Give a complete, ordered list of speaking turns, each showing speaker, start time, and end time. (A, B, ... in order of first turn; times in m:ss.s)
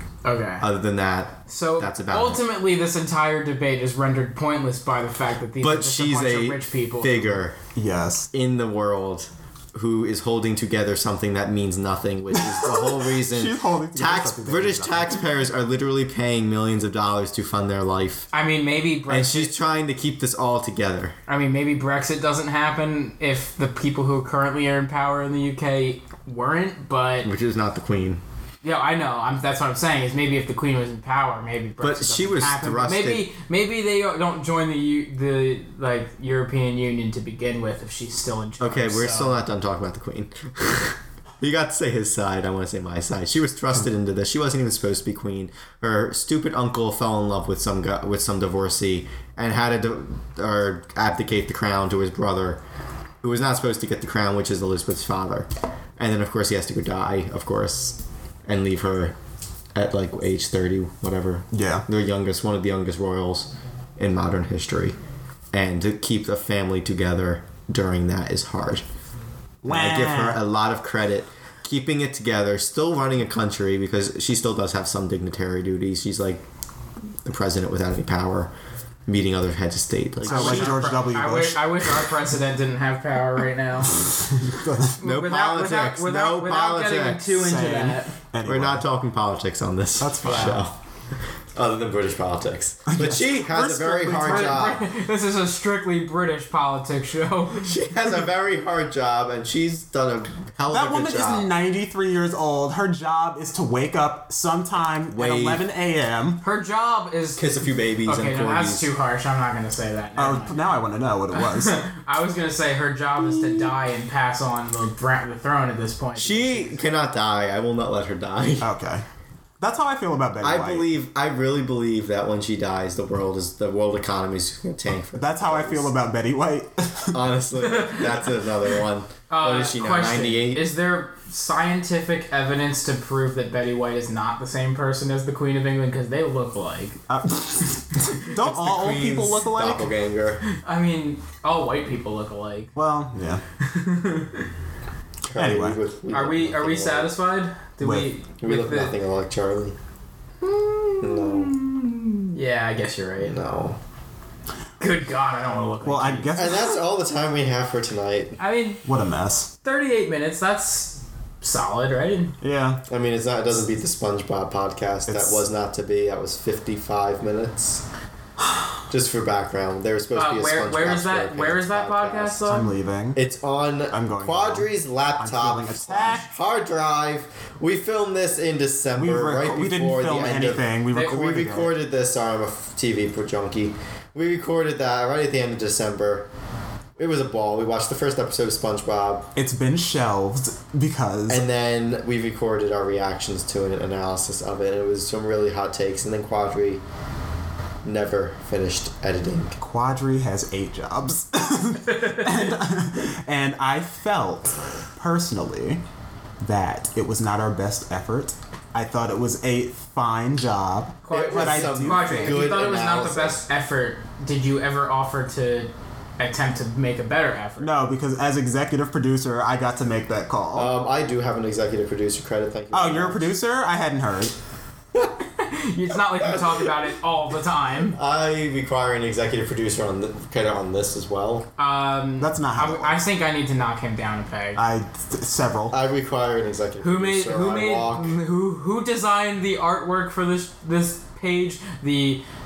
0:00.2-0:00.7 A
0:00.6-0:02.4 B
0:01.5-0:07.4 A
0:05.6-0:07.6 B
0:07.8-0:08.3 C
0:08.3-0:18.3 B
0:12.3-0:15.2 C
0:18.3-0:19.6 A
0:19.1-0:21.2 B
0:21.3-0:27.3 A
0:27.2-0:28.2 B
0:28.6-0:39.4 A
0:31.8-0:33.3 B
0:38.6-0:52.6 B
0:53.2-0:59.2 B
0:59.8-1:05.0 B
1:01.5-1:01.8 C
1:05.5-1:08.8 B
1:09.6-1:10.4 C
1:09.7-1:16.4 B
1:17.2-1:18.5 B
1:19.1-1:20.9 B
1:20.2-1:22.2 C
1:20.3-1:24.1 A
1:24.2-1:25.0 C
1:25.0-1:27.3 B
1:25.0-1:28.1 A
1:27.3-1:28.8 C
1:28.4-1:30.8 B
1:30.0-1:30.7 C
1:30.2-1:30.6 A
1:31.6-1:34.8 B
1:32.9-1:34.7 C
1:34.2-1:37.7 A
1:37.5-1:41.5 B
1:40.7-1:46.4 C
1:45.1-1:45.6 B
1:46.4-1:47.5 A
1:47.4-1:48.9 B
1:48.0-1:50.7 A
1:50.2-1:51.8 C
1:51.3-1:56.8 A
1:56.2-1:58.7 B
1:58.6-1:59.0 C
1:59.6-2:00.9 C
2:00.4-2:05.9 B
2:05.2-2:07.2 C
2:07.1-2:10.7 B
2:07.6-2:08.3 A
2:09.3-2:17.0 A
2:17.1-2:19.9 C
2:18.4-2:20.4 B
2:20.5-2:22.7 A
2:22.8-2:23.4 C
2:23.6-2:24.5 A
2:25.3-2:27.1 B
2:25.4-2:25.8 C
2:26.1-2:28.9 A
2:27.8-2:28.1 C
2:28.4-2:29.8 B
2:30.4-2:33.4 A
2:31.0-2:31.6 B
2:33.2-2:33.8 B
2:34.8-2:36.4 A
2:35.8-2:36.8 C
2:36.4-2:38.4 B
2:38.4-2:38.8 A
2:38.8-2:39.5 C
2:39.6-2:42.4 A
2:42.4-2:42.8 C
2:42.9-2:47.8 B
2:45.1-2:45.4 C
2:48.9-2:52.4 B
2:50.2-2:52.7 A
2:52.5-2:53.2 C
2:53.2-3:06.3 B
2:53.9-2:56.3 C
2:59.0-3:01.7 C
3:00.9-3:01.2 A
3:07.0-3:09.3 B
3:09.4-3:11.4 C
3:11.3-3:16.8 B
3:17.8-3:19.6 B
3:19.6-3:25.8 C
3:21.9-3:22.4 A
3:26.4-3:32.4 C
3:31.0-3:37.7 A
3:31.1-3:33.4 B
3:37.6-3:40.7 C
3:40.5-3:43.3 B
3:42.7-3:44.4 C
3:45.2-3:48.0 A
3:46.1-3:46.7 B
3:48.0-3:51.5 B
3:51.6-3:54.6 A
3:52.2-3:53.0 C
3:54.6-3:55.8 C
3:55.7-3:58.2 B
3:56.8-4:02.2 A